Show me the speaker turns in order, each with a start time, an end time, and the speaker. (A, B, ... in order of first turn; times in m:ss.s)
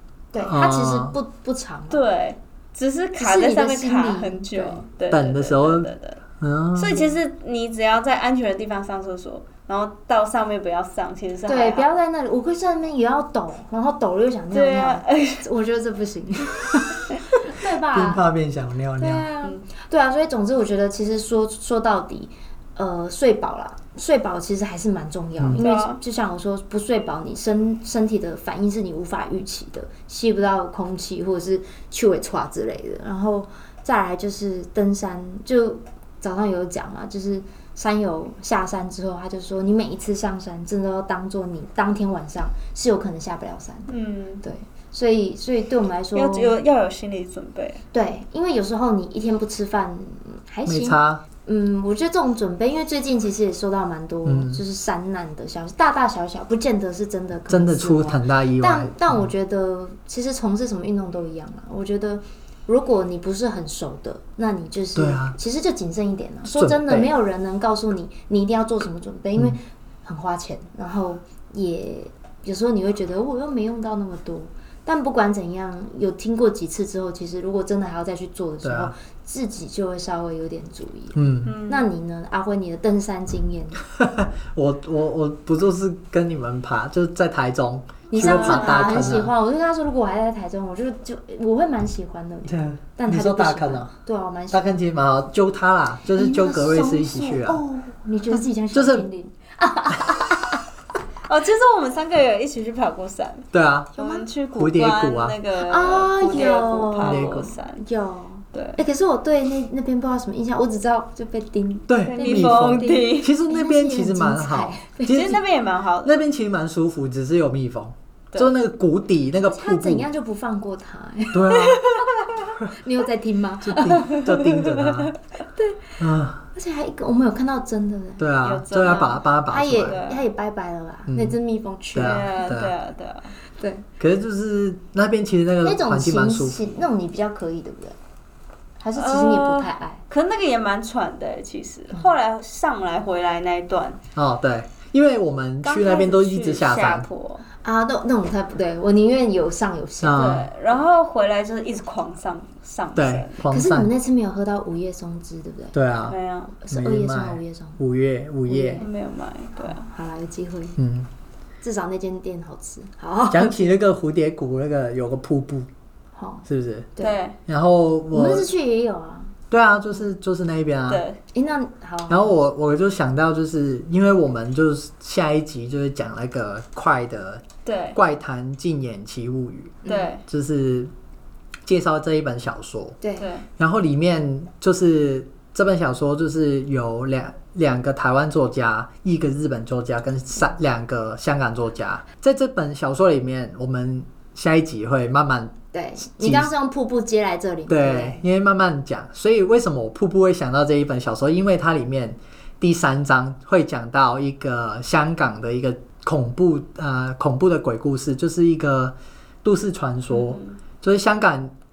0:00.3-0:02.0 A
0:00.4-0:01.1 B
0:01.9-0:06.2 C
0:03.2-0:04.8 A
0:05.1-0:05.9 B
0:06.4-0:07.0 B
0:06.8-0:11.9 C
0:11.4-0:18.2 A
0:14.5-0:15.4 C
0:17.9-0:19.3 B
0:19.0-0:46.6 A
0:25.6-0:26.0 C
0:43.9-0:44.4 C
0:46.1-0:47.8 C
0:47.9-1:23.8 A
0:50.6-0:51.2 B
0:54.2-0:54.6 B
0:57.5-0:59.3 B
1:05.0-1:05.4 B
1:06.5-1:07.1 B
1:18.6-1:18.9 B
1:21.1-1:21.6 B
1:21.4-1:21.9 C
1:24.0-1:29.3 B
1:28.1-1:34.7 A
1:28.2-1:29.1 C
1:32.5-1:33.9 B
1:34.5-1:37.6 B
1:36.1-1:40.6 A
1:38.7-1:39.0 B
1:41.2-1:47.8 C
1:43.5-1:44.0 B
1:44.0-1:44.2 A
1:44.5-1:45.4 B
1:45.6-1:47.2 A
1:47.0-1:47.5 B
1:47.8-1:55.4 A
1:48.5-1:48.8 C
1:51.9-1:55.4 B
1:52.1-1:53.3 C
1:55.1-1:56.1 C
1:56.0-2:00.1 B
1:59.5-2:04.3 A
2:01.3-2:01.8 B
2:01.8-2:02.4 C
2:03.6-2:05.1 B
2:04.2-2:05.1 C
2:05.6-2:06.0 A
2:06.0-2:06.4 B
2:06.5-2:08.2 A
2:08.2-2:10.0 B
2:08.4-2:10.2 C
2:09.5-2:12.5 A
2:11.1-2:11.4 B
2:11.9-2:12.7 B
2:12.0-2:13.3 C
2:13.6-2:13.8 A
2:14.0-2:16.6 B
2:15.6-2:18.0 A
2:18.8-2:20.0 A
2:19.0-2:24.0 C
2:24.1-2:27.0 B
2:25.6-2:27.4 C
2:27.6-2:30.3 A
2:30.0-2:30.5 B
2:30.2-2:33.4 C
2:33.0-2:33.9 B
2:33.5-2:35.8 A
2:35.7-2:36.2 B
2:36.1-2:36.6 C
2:36.6-2:37.8 A
2:36.7-2:38.8 B
2:38.5-2:38.8 A
2:38.8-2:39.8 C
2:39.6-2:40.8 A
2:40.8-2:41.1 B
2:41.6-2:43.8 A
2:43.3-2:45.7 B
2:46.2-2:47.2 A
2:46.5-2:46.9 B
2:47.0-2:47.4 C
2:47.4-2:48.5 B
2:48.1-2:49.3 A
2:49.5-2:51.0 B
2:50.9-2:51.2 C
2:51.3-2:52.3 A
2:52.1-3:00.9 B
2:57.6-2:58.0 C
2:59.8-3:00.1 A
2:59.8-3:00.2 C
3:01.6-3:03.0 B
3:03.0-3:03.3 A
3:03.2-3:03.4 C
3:03.6-3:16.5 B
3:15.7-3:18.2 A
3:17.7-3:31.5 B
3:30.1-3:30.6 C